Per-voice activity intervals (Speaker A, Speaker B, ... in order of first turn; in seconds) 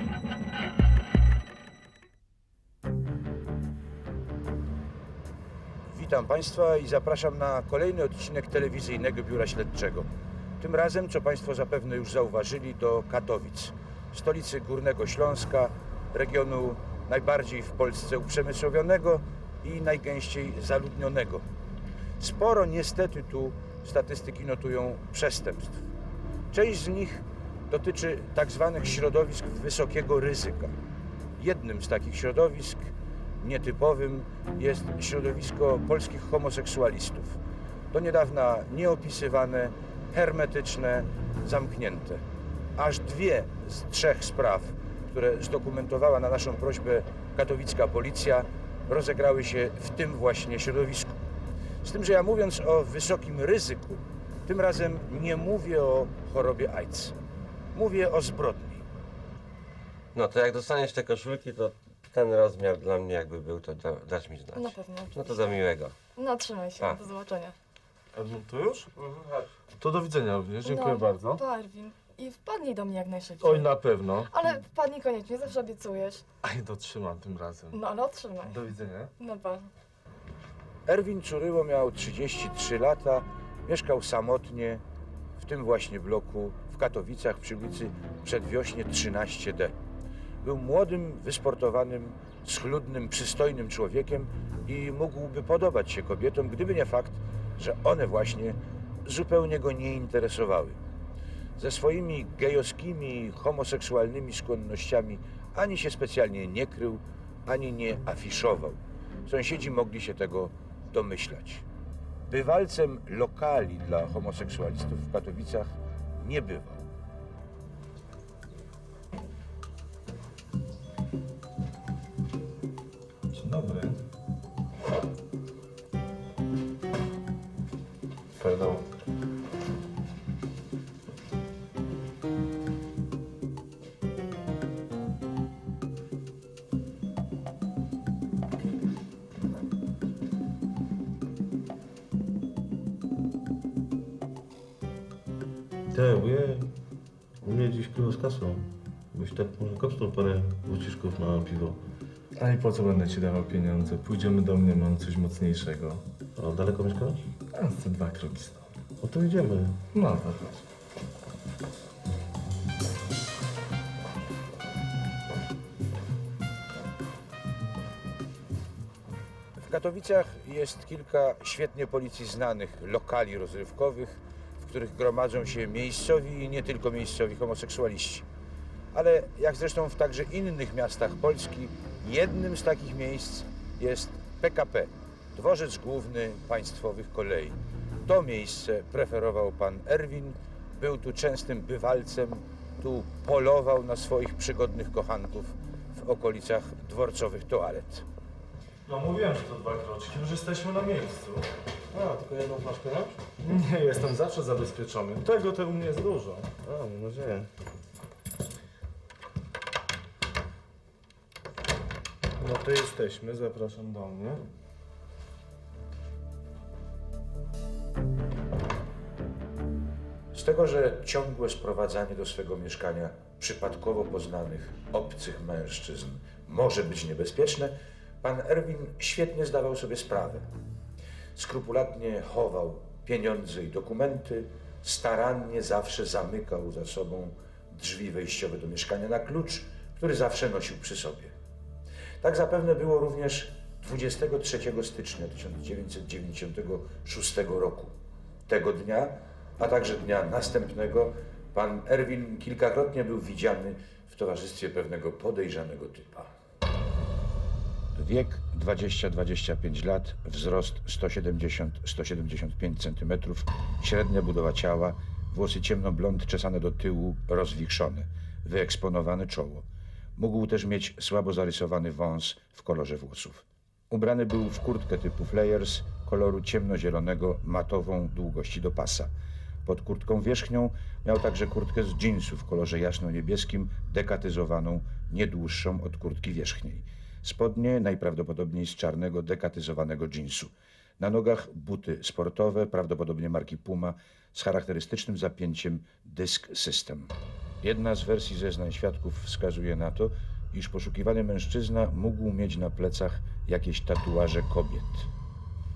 Speaker A: 5.9-10.1, 10.6-21.5, 22.2-25.9, 26.5-30.8, 31.4-37.4, 37.9-42.2, 42.8-51.1, 51.8-57.1, 57.7-58.9, 80.8-84.8, 85.4-89.7, 90.4-100.8, 101.6-111.6, 112.3-116.9, 169.6-178.2, 178.9-198.1, 220.3-230.5, 231.3-241.3, 242.2-247.9, 248.5-256.3, 257.9-279.1, 279.6-305.1
Speaker B: 60.1-66.0
Speaker C: 64.5-65.6, 66.1-67.5, 70.6-76.2, 77.7-78.6, 79.2-79.7
Speaker D: 68.1-68.9, 69.8-71.4, 73.4-74.3, 76.4-77.8, 78.4-79.1, 123.3-124.0, 128.4-128.8, 152.3-156.0, 157.5-158.7, 159.9-160.6, 198.8-201.4, 203.4-206.5, 212.4-214.4
Speaker E: 69.0-69.5, 128.4-128.8, 145.9-146.7, 147.4-151.8, 156.3-157.3, 159.0-159.8, 201.9-203.2, 206.6-207.5